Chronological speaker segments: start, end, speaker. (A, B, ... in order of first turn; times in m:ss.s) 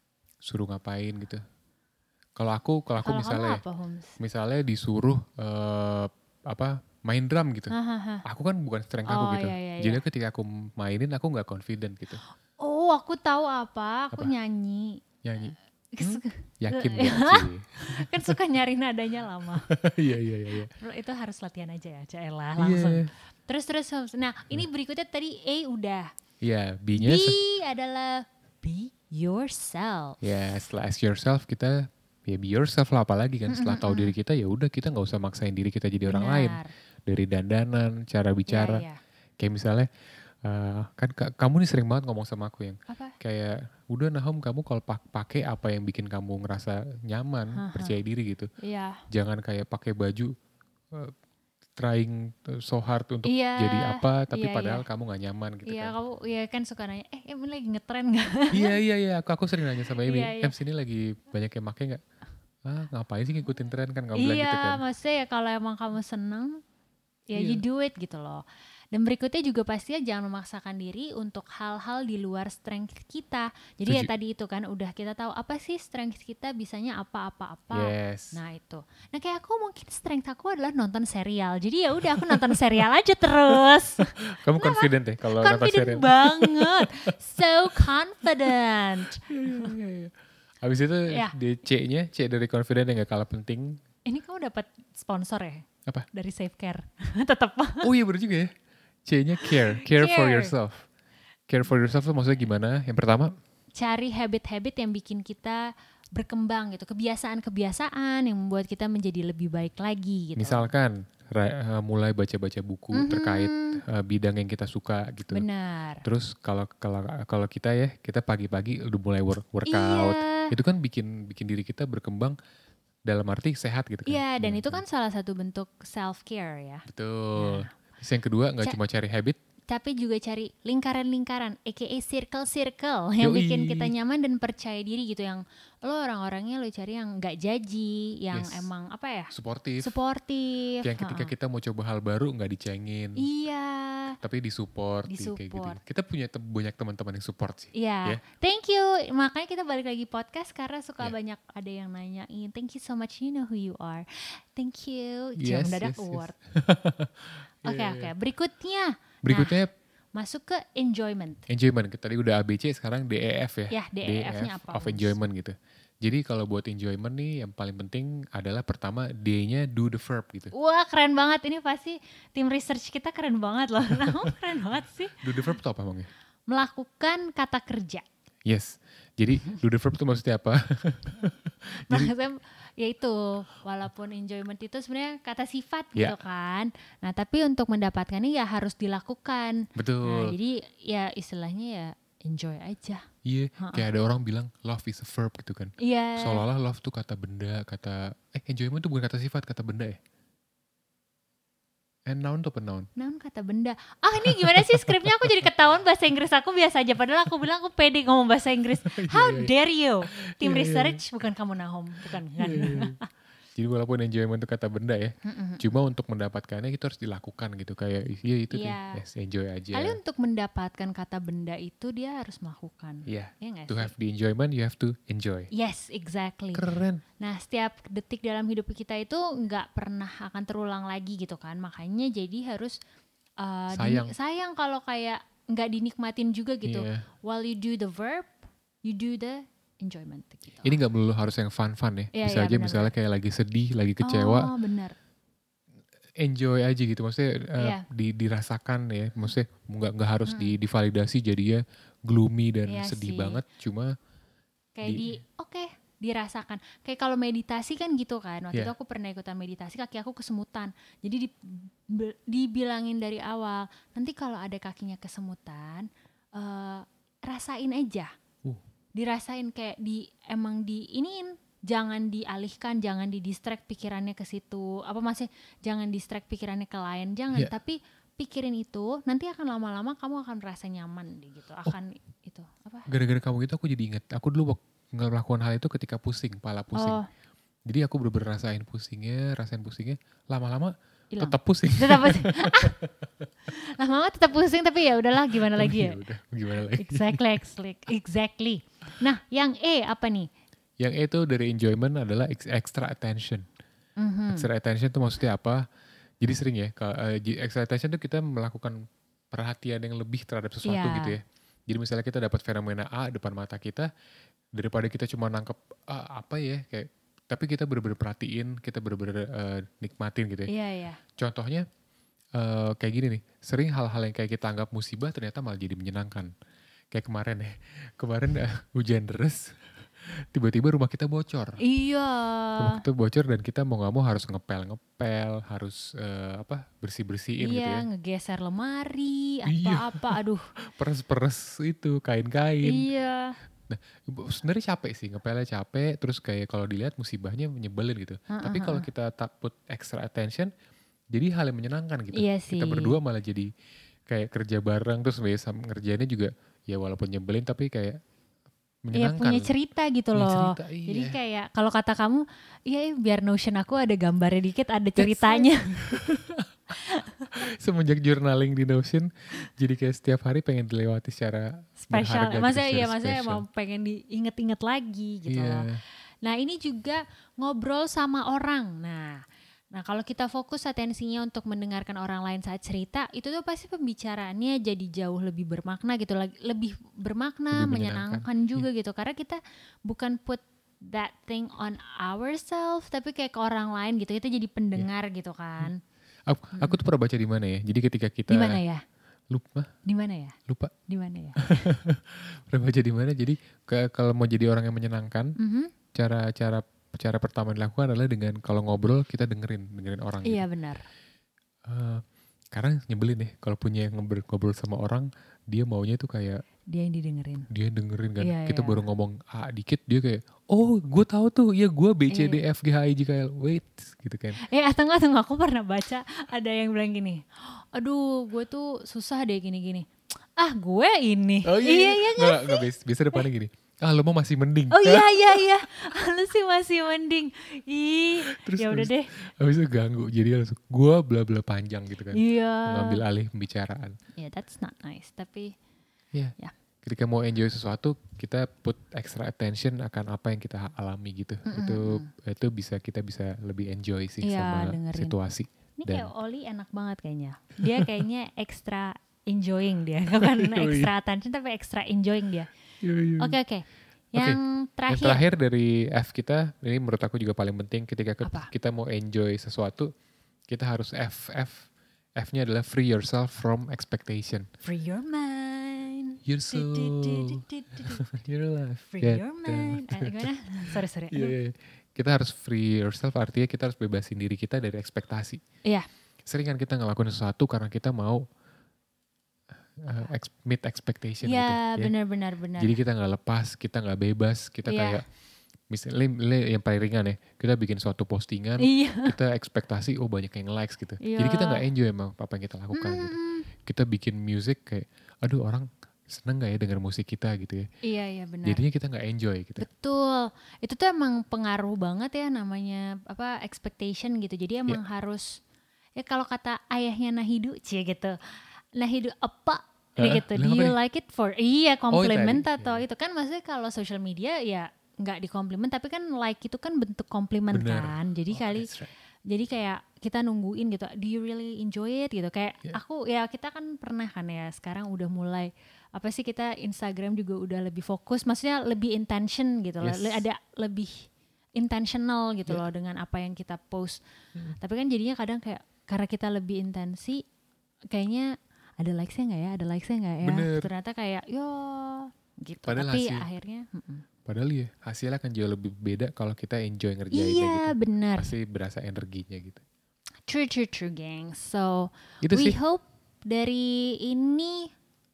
0:00.4-0:01.4 A
0:02.4-0:03.6 A
0:03.0-0:04.2 B
0:04.2-0:12.2 A
0:07.7-0:08.2 B
0:09.0-0:10.0 B
0:12.6-0:15.0 B
0:15.2-0:18.4 A
0:15.9-0:19.7 B
0:19.7-0:20.7 A
0:20.7-0:26.1 B
0:22.6-0:23.1 A
0:26.4-0:27.4 A
0:27.0-0:30.2 B
0:30.2-0:38.8 A
0:33.5-0:34.1 B
0:36.1-0:36.7 B
0:38.5-0:39.0 B
0:39.4-0:39.9 A
0:40.4-0:48.5 A
0:42.9-0:43.2 B
0:47.5-0:48.0 B
0:48.6-0:49.0 B
0:49.1-0:50.3 A
0:51.8-0:55.9 A
0:53.2-0:54.8 B
0:55.6-0:58.8 B
0:58.5-1:02.0 A
1:00.0-1:00.5 B
1:02.6-1:04.8 A
1:04.1-1:06.6 B
1:07.3-1:29.7 B
1:07.3-1:07.6 A
1:17.7-1:18.4 A
1:22.1-1:22.6 A
1:24.1-1:27.1 A
1:29.3-1:33.8 A
1:31.1-1:31.3 B
1:34.0-1:37.9 B
1:37.8-1:38.5 A
1:39.0-1:40.8 A
1:39.4-1:40.5 B
1:41.5-1:43.3 A
1:43.8-1:50.7 B
1:50.4-1:55.4 A
1:52.9-1:53.8 B
1:55.3-1:56.0 B
1:56.0-2:02.4 A
1:59.6-2:00.5 B
2:03.1-2:04.8 A
2:04.0-2:06.8 B
2:06.9-2:09.4 A
2:07.4-2:07.7 B
2:09.7-2:21.3 B
2:13.2-2:13.9 A
2:18.3-2:18.6 A
2:19.3-2:19.9 A
2:20.8-2:23.2 A
2:23.2-2:24.2 B
2:24.2-2:28.2 A
2:25.1-2:25.8 B
2:27.7-2:36.3 B
2:35.4-2:38.1 A
2:37.6-2:39.6 B
2:39.2-2:39.7 A
2:40.1-2:41.4 B
2:41.5-2:50.5 A
2:43.7-2:45.1 B
2:50.5-2:55.2 B
2:53.9-2:54.3 A
2:55.2-2:56.1 A
2:56.5-2:58.0 B
2:58.4-3:02.1 A
3:01.9-3:13.0 B
3:09.8-3:10.4 A
3:13.2-3:20.0 A
3:13.6-3:13.8 B
3:15.8-3:16.4 B
3:22.0-3:22.9 A
3:23.0-3:33.1 B
3:24.2-3:25.4 A
3:28.8-3:29.5 A
3:30.1-3:31.0 A
3:32.1-3:33.0 A
3:33.6-3:40.0 A
3:35.2-3:35.6 B
3:38.5-3:39.0 B
3:39.7-3:43.9 B
3:43.1-3:45.5 A
3:45.5-3:46.7 B
3:46.5-3:47.0 A
3:47.2-3:52.8 B
3:53.4-4:00.8 B
3:53.7-3:54.1 A
3:56.6-3:57.0 A
4:00.6-4:04.5 A
4:02.1-4:02.9 B
4:04.0-4:05.0 B
4:06.2-4:14.0 A
4:07.6-4:07.8 B
4:10.2-4:10.6 B
4:12.7-4:13.4 B
4:14.8-4:28.1 B
4:14.8-4:15.1 A
4:28.9-4:42.9 B
4:42.9-4:47.0 A
4:46.7-4:47.1 B
4:47.6-4:53.3 A
4:51.1-4:52.8 B
4:53.5-4:56.0 B
4:55.3-4:57.2 A
4:56.7-5:00.3 B
5:00.8-5:03.5 A
5:04.0-5:04.5 B
5:04.3-5:05.6 A
5:06.2-5:13.9 A
5:10.6-5:11.2 B
5:14.5-5:20.5 A
5:20.5-5:21.0 B
5:21.2-5:21.7 A
5:22.3-5:26.3 A
5:26.9-5:31.6 A
5:31.6-5:32.8 B
5:32.6-5:37.8 A
5:37.4-5:40.4 B
5:39.5-5:40.2 A
5:40.7-5:42.9 A
5:42.6-5:43.4 B
5:43.7-5:50.5 A
5:48.3-5:48.9 B
5:51.1-5:53.5 A
5:52.1-5:53.0 B
5:54.1-5:58.0 A
5:58.8-5:59.5 A
5:58.9-6:06.0 B
6:00.1-6:01.2 A
6:05.0-6:06.7 A
6:06.8-6:07.3 B
6:07.3-6:13.4 A
6:11.8-6:15.7 B
6:15.3-6:15.8 A
6:16.2-6:35.8 B
6:27.5-6:28.6 A
6:36.3-6:38.6 A
6:38.3-6:38.8 B
6:39.3-6:39.7 A
6:39.8-6:40.3 B
6:40.5-6:40.7 A
6:40.9-6:41.7 B
6:41.4-6:45.4 A
6:45.4-6:45.7 B
6:45.9-6:50.4 A
6:50.2-6:50.8 B
6:51.6-6:56.4 A
6:56.7-6:57.5 B
6:57.5-7:04.4 A
6:58.2-6:58.8 B
7:02.1-7:02.4 B
7:04.4-7:12.6 B
7:11.4-7:15.5 A
7:14.7-7:19.1 B
7:18.2-7:24.0 A
7:22.1-7:23.0 B
7:24.2-7:25.5 B
7:26.1-7:36.1 A
7:31.4-7:32.1 B
7:34.2-7:35.1 B
7:35.8-7:42.5 B
7:40.2-7:40.9 A
7:42.8-7:43.4 A
7:43.2-7:45.2 B
7:44.1-7:49.9 A
7:48.2-7:48.5 B
7:50.5-7:54.5 A
7:54.6-7:58.0 B
7:56.2-8:05.4 A
7:58.9-8:01.3 B
8:06.2-8:08.2 A
8:09.8-8:11.9 A
8:11.2-8:12.8 B
8:12.6-8:15.0 A
8:14.6-8:15.0 B
8:15.7-8:27.7 A
8:18.6-8:19.2 B
8:21.0-8:21.6 B
8:22.7-8:23.5 B
8:27.8-8:28.6 B
8:28.4-8:29.6 A
8:29.6-8:35.4 B
8:36.0-8:38.2 B
8:38.8-8:48.7 B
8:40.0-8:40.8 A
8:41.9-8:42.8 A
8:47.5-8:48.9 A
8:49.3-9:04.0 B
8:59.8-9:00.2 A
9:04.6-9:07.2 B
9:07.9-9:14.0 B
9:10.2-9:10.7 A
9:12.6-9:13.3 A
9:14.2-9:19.6 A
9:17.1-9:18.3 B
9:20.3-9:24.7 B
9:22.2-9:22.6 A